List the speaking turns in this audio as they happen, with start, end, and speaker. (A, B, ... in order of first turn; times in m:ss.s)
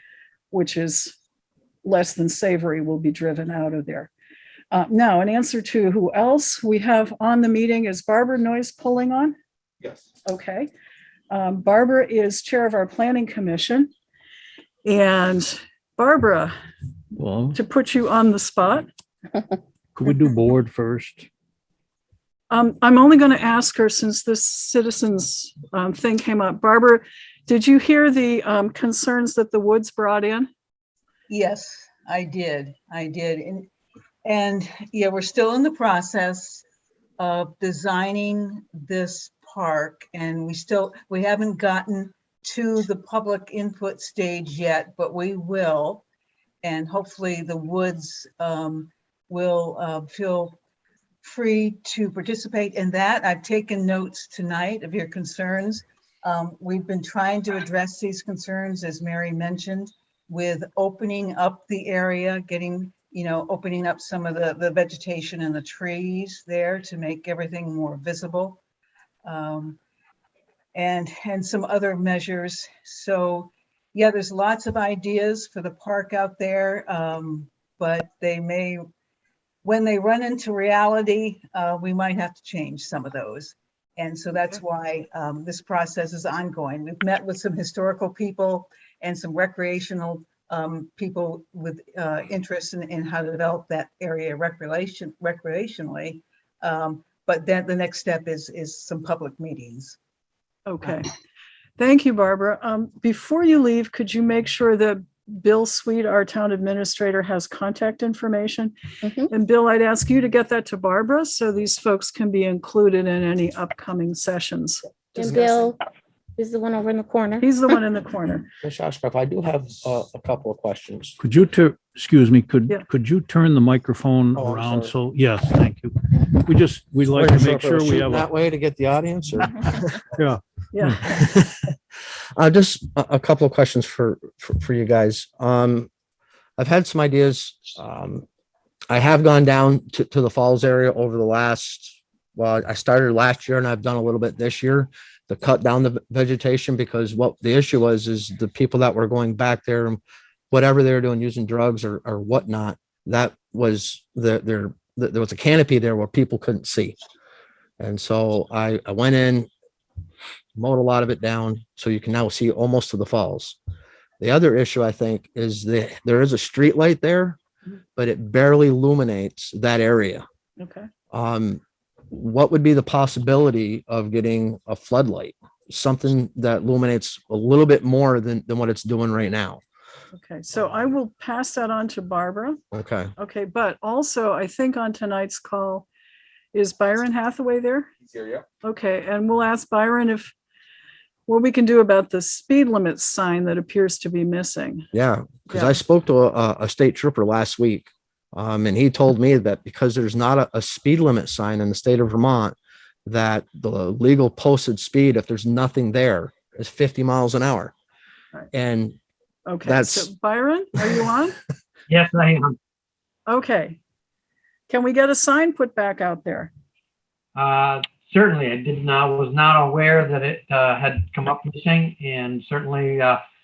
0:00.5-0:01.2 A
0:01.8-0:04.1 A
0:04.7-0:09.4 A
0:10.2-0:10.7 A
0:11.3-0:13.9 A
0:14.8-0:16.6 A
0:17.2-0:17.6 B
0:17.5-0:18.9 A
0:20.0-0:21.3 B
0:22.5-0:30.5 A
0:31.3-0:33.7 C
0:34.2-0:36.6 C
0:37.2-0:46.0 C
0:46.6-0:50.6 C
0:51.2-1:08.6 C
1:09.2-1:09.8 C
1:10.7-1:18.8 C
1:19.6-1:40.0 C
1:40.7-1:41.1 A
1:41.8-1:48.7 A
1:49.0-1:49.3 D
1:49.3-1:54.9 A
1:55.2-1:55.7 E
1:55.2-1:55.7 D
1:56.4-1:57.5 D
1:57.4-1:58.5 A
1:58.6-2:01.2 E
2:01.2-2:08.3 B
2:04.4-2:05.0 E
2:07.1-2:10.0 E
2:10.2-2:11.0 B
2:10.7-2:11.2 A
2:11.2-2:11.7 E
2:12.4-2:15.9 E
2:16.6-2:18.2 E
2:18.9-2:37.0 E
2:37.8-2:39.5 E
2:40.6-2:43.6 E
2:44.2-2:47.4 E
2:48.0-2:50.2 E
2:50.6-2:50.9 A
2:51.1-2:51.6 E
2:52.1-2:59.6 E
3:00.1-3:02.6 A
3:02.7-3:03.1 E
3:03.2-3:05.9 A
3:06.5-3:07.9 A
3:08.6-3:10.3 A
3:11.3-3:14.9 A
3:14.9-3:27.8 E
3:15.5-3:15.8 A
3:28.5-3:29.0 E
3:29.5-3:31.4 A
3:29.6-3:30.1 E
3:31.9-3:32.6 F
3:33.3-3:33.8 A
3:34.7-3:36.5 A
3:37.4-3:43.2 F